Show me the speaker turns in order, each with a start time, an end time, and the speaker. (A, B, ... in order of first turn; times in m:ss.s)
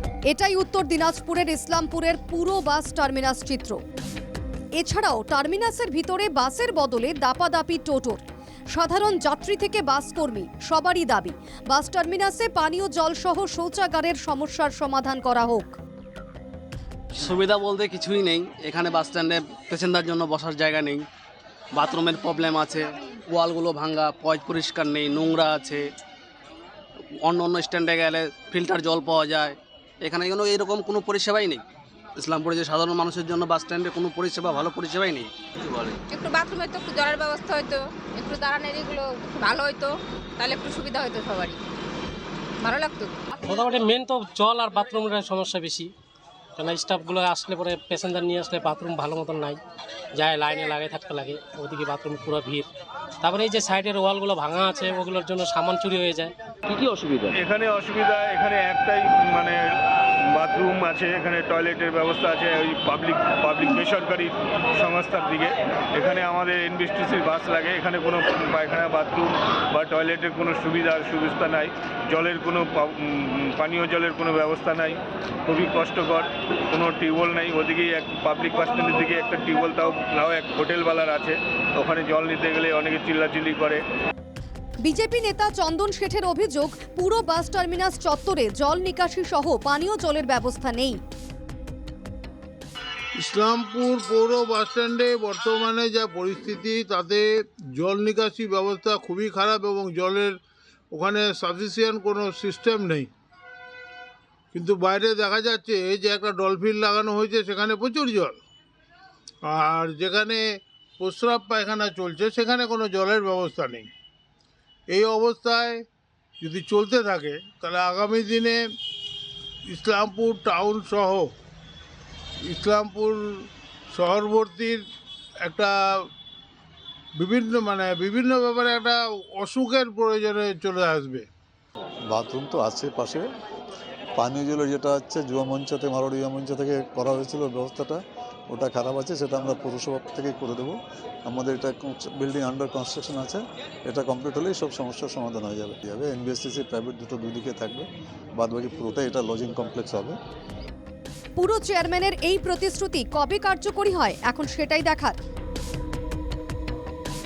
0:00.3-0:03.8 A
0:04.8-0:08.2 A
0:08.7-0:15.8 A
0:17.2-0:21.0 B
0:21.7-0:25.8 B
0:27.2-0:31.6 B
0:32.2-0:36.0 B
0:36.1-0:41.6 C
0:42.6-0:43.3 C
0:43.4-0:45.9 D
0:46.6-0:49.6 D
0:50.2-0:52.7 D
0:53.2-0:56.3 D
0:57.3-1:23.8 E
1:24.8-1:31.0 A
1:33.2-1:40.4 F
1:40.9-1:43.1 F
1:44.5-1:48.4 F
1:49.4-1:50.4 F
1:51.0-1:53.9 F
1:54.9-1:55.8 F
1:56.4-1:58.6 F
1:59.7-2:01.3 F
2:02.5-2:04.8 F
2:05.5-2:06.1 F
2:07.2-2:11.3 F
2:12.1-2:13.2 G
2:14.2-2:18.0 G
2:18.5-2:20.8 G
2:21.3-2:30.2 G
2:31.4-2:35.2 A